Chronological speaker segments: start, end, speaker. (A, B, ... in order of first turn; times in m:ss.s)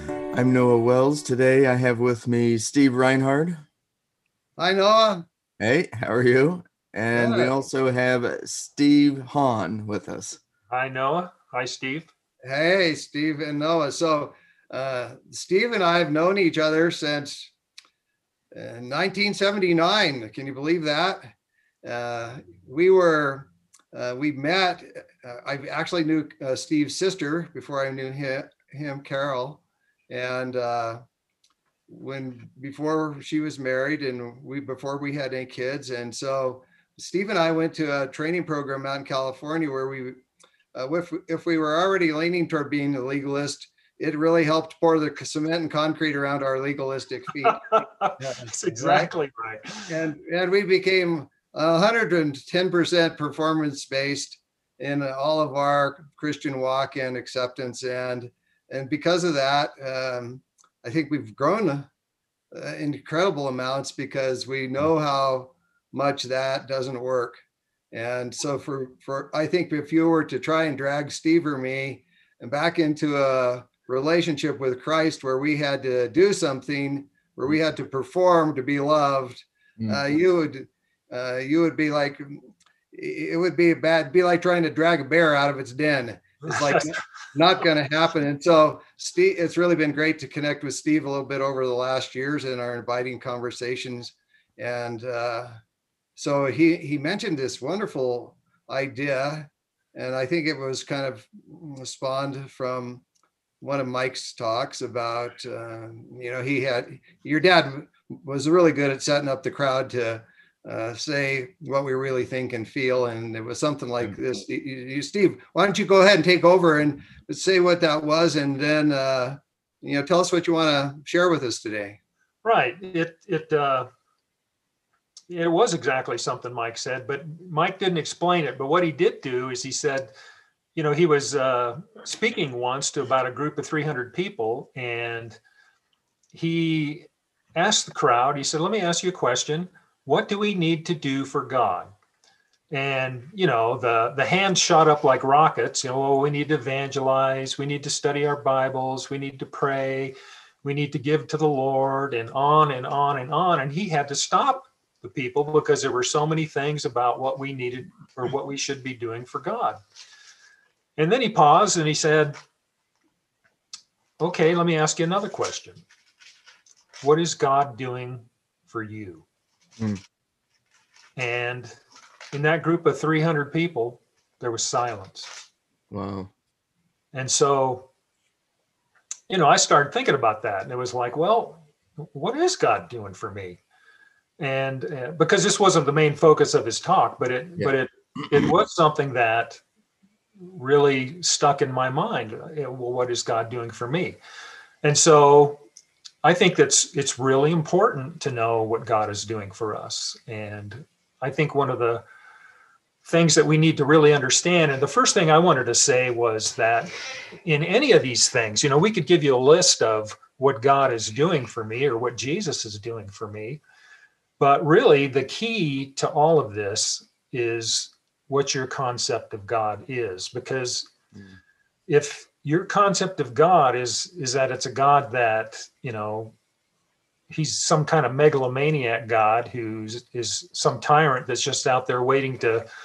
0:00.3-0:03.6 A
0:04.6-0:05.2 B
0:05.6-0:10.4 A
0:07.1-0:07.5 B
0:10.7-0:12.1 C
0:12.4-0:17.5 B
0:18.5-0:21.3 B
0:21.8-0:31.0 B
0:31.9-0:40.2 B
0:40.7-0:49.1 B
0:47.5-0:49.9 C
0:49.7-1:01.9 B
1:02.5-1:07.4 B
1:07.9-1:35.5 B
1:26.4-1:27.0 C
1:36.2-1:43.0 B
1:43.6-2:02.0 B
2:02.4-2:03.9 C
2:05.3-2:10.1 C
2:10.7-2:15.4 C
2:16.3-2:21.9 C
2:22.7-2:39.8 C
2:41.0-2:42.3 C
2:44.2-2:45.8 C
2:47.0-2:49.2 C
2:51.2-2:51.8 C
2:52.3-2:55.3 C
2:55.9-2:56.3 A
2:57.1-2:57.9 C
2:59.3-3:03.6 C
3:04.4-3:09.6 C
3:10.4-3:14.2 C
3:14.8-3:15.6 C
3:16.2-3:22.0 C
3:23.0-3:33.6 C
3:34.4-3:40.9 C
3:41.9-3:46.3 C
3:47.3-3:52.6 C